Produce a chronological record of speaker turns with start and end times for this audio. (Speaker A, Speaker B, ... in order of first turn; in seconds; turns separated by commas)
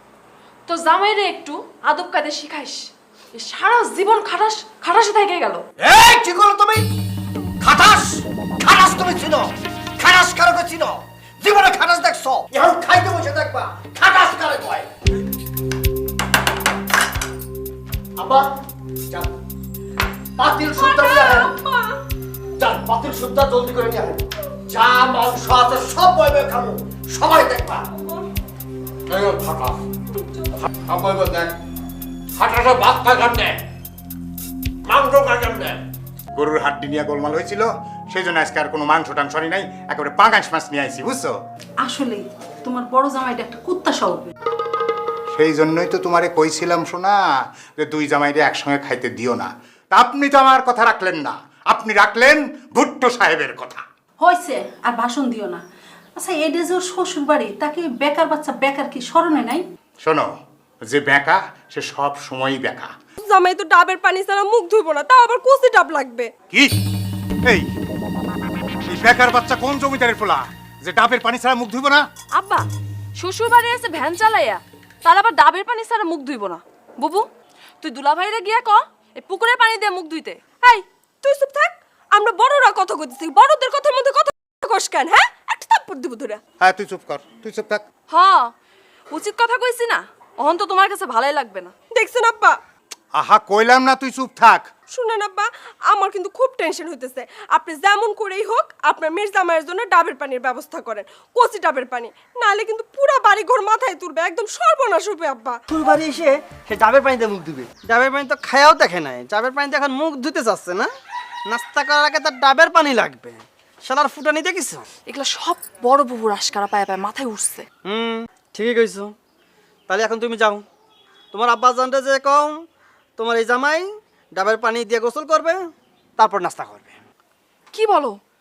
Speaker A: 0.7-5.6, Speaker B: 5.8-6.8, Speaker B: 7.6-14.9, Speaker B: 18.2-18.5, Speaker B: 20.4-21.5, Speaker C: 20.8-22.0, Speaker B: 22.6-24.2, Speaker B: 24.7-27.8, Speaker C: 27.9-28.3, Speaker B: 29.1-29.8, Speaker C: 30.1-30.6, Speaker B: 30.8-31.6, Speaker B: 32.3-33.6, Speaker B: 34.9-35.8, Speaker D: 36.4-41.4, Speaker E: 41.8-44.3, Speaker D: 45.4-47.2, Speaker D: 47.8-53.8, Speaker E: 54.2-55.6, Speaker E: 56.2-59.6, Speaker D: 60.0-60.3, Speaker D: 60.8-62.9, Speaker C: 63.2-66.3, Speaker D: 66.5-66.8, Speaker D: 68.9-72.0, Speaker A: 72.4-72.7, Speaker A: 73.2-77.3, Speaker A: 77.8-80.4, Speaker C: 80.6-86.4, Speaker D: 86.6-87.8, Speaker A: 88.1-88.5, Speaker A: 89.1-91.7, Speaker C: 91.9-92.6, Speaker D: 93.2-94.7, Speaker C: 94.9-105.6, Speaker F: 105.7-110.9, Speaker F: 111.5-114.8, Speaker A: 115.1-117.7, Speaker F: 117.8-119.1, Speaker F: 119.9-120.7, Speaker F: 121.3-122.6, Speaker F: 123.2-127.0, Speaker A: 127.7-128.2